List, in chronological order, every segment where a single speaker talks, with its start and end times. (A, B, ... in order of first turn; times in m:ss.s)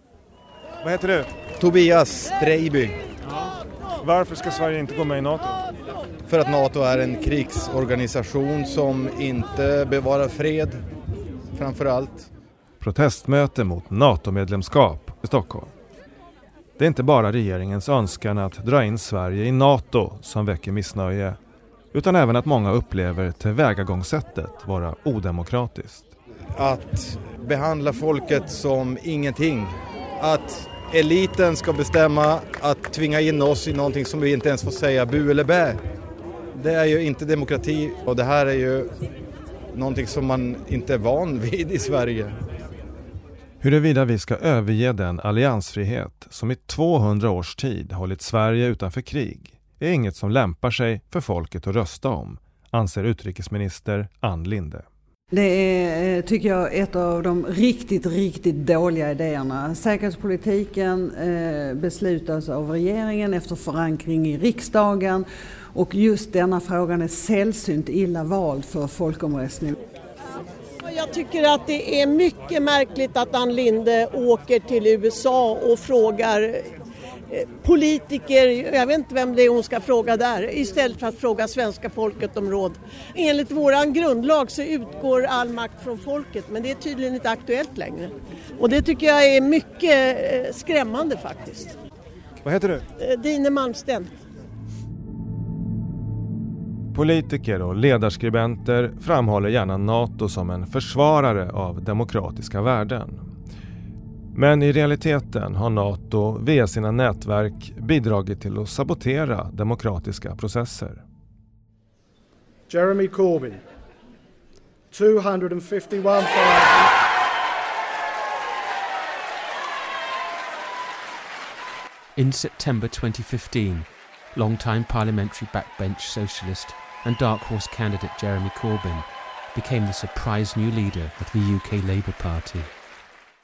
0:00.8-0:01.4 A
0:01.6-0:03.0 B
0:04.0-0:05.6 A
0:06.3-0:10.8 B
0:11.5-0:12.3 B
0:12.8-0:15.7 C
0:16.8-0:21.4 C
0:21.9-0:26.1 C
0:26.5-0:35.8 B
0:36.5-0:38.9 B
0:39.7-0:42.4 B
0:43.6-0:54.8 C
0:55.3-1:09.7 D
1:10.8-1:16.7 E
1:17.3-1:31.8 E
1:32.4-1:32.8 A
1:33.0-1:34.1 E
1:36.9-1:43.2 C
1:44.3-1:51.0 C
1:52.7-1:53.6 F
1:54.9-1:56.9 F
2:02.2-2:12.7 G